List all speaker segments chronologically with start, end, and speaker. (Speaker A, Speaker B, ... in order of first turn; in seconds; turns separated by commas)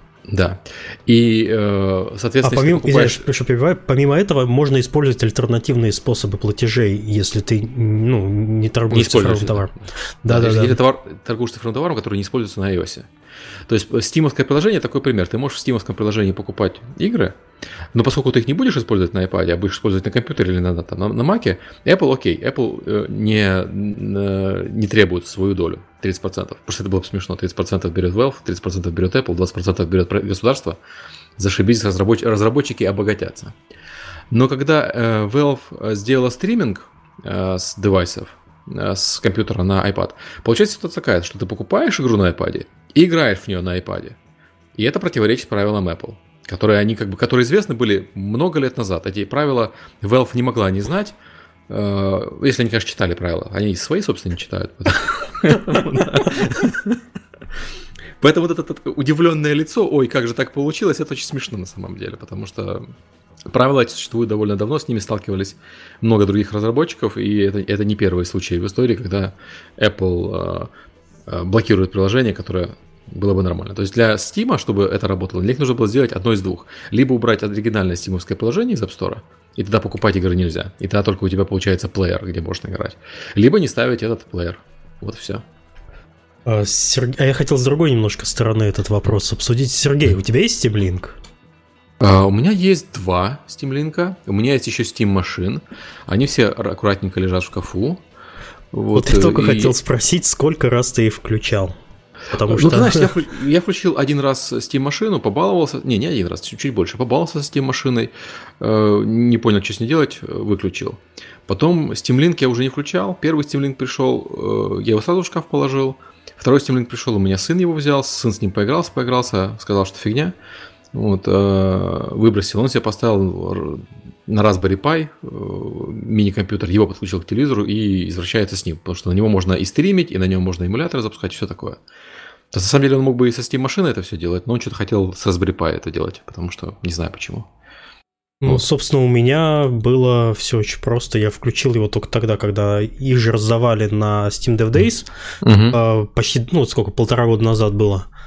Speaker A: 0.3-3.2, Speaker B: 2.4-10.8, Speaker A: 8.9-9.7, Speaker A: 10.3-13.1, Speaker A: 13.7-17.4, Speaker A: 17.9-30.8, Speaker A: 31.4-33.5, Speaker A: 34.3-44.1, Speaker A: 44.7-51.1, Speaker A: 51.7-57.0, Speaker A: 58.2-62.9, Speaker A: 63.5-70.7, Speaker A: 71.3-85.4, Speaker B: 86.5-91.2, Speaker A: 92.0-98.0, Speaker A: 98.7-99.8, Speaker B: 98.9-101.7, Speaker B: 102.3-103.1, Speaker A: 102.3-120.3, Speaker A: 120.9-131.8, Speaker A: 132.5-137.5, Speaker B: 138.4-145.1, Speaker A: 145.4-145.8, Speaker B: 145.7-148.1